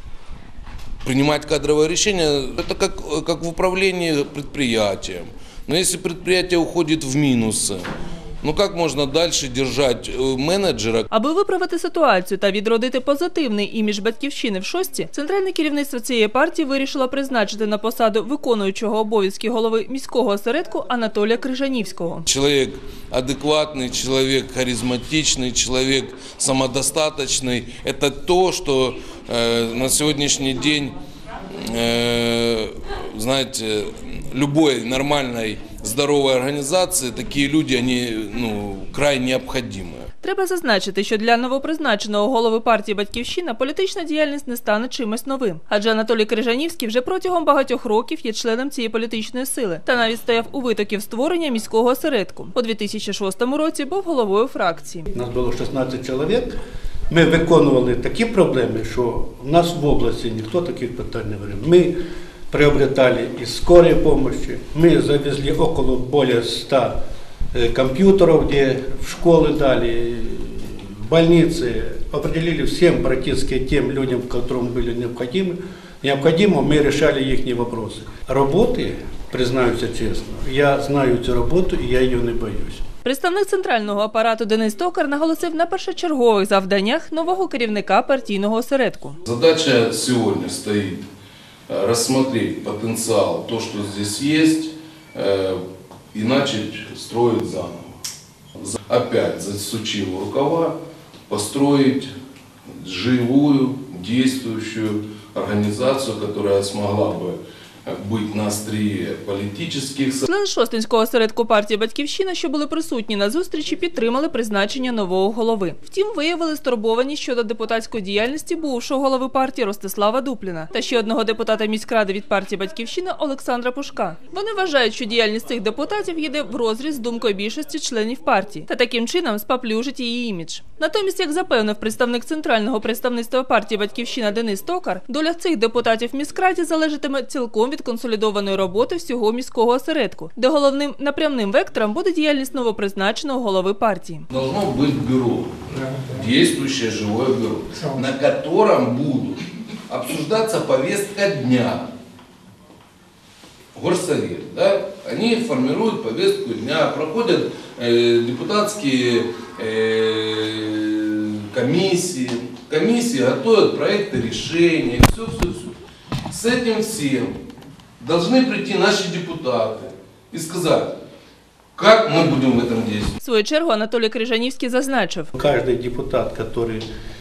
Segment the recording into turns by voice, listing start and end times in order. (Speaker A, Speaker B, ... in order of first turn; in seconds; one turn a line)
Speaker A: 1.0-7.8
Speaker A: 8.4-11.1
Speaker B: 11.1-22.3
Speaker A: 22.3-30.9
Speaker A: 31.5-40.0
Speaker B: 40.2-55.1
Speaker C: 55.1-56.5
Speaker C: 57.1-62.0
Speaker C: 62.5-67.0
Speaker C: 67.5-82.8
Speaker B: 83.0-89.2
Speaker A: 89.2-91.1
Speaker A: 91.7-95.6
Speaker A: 96.1-97.9
Speaker A: 98.6-100.8
Speaker A: 101.3-102.1
Speaker A: 102.8-110.3
Speaker B: 110.3-144.3
Speaker A: 144.3-151.9
Speaker A: 153.7-165.7
Speaker A: 166.3-167.4
Speaker A: 168.0-171.0
Speaker A: 171.8-173.2
Speaker B: 173.2-175.3
Speaker C: 175.3-176.8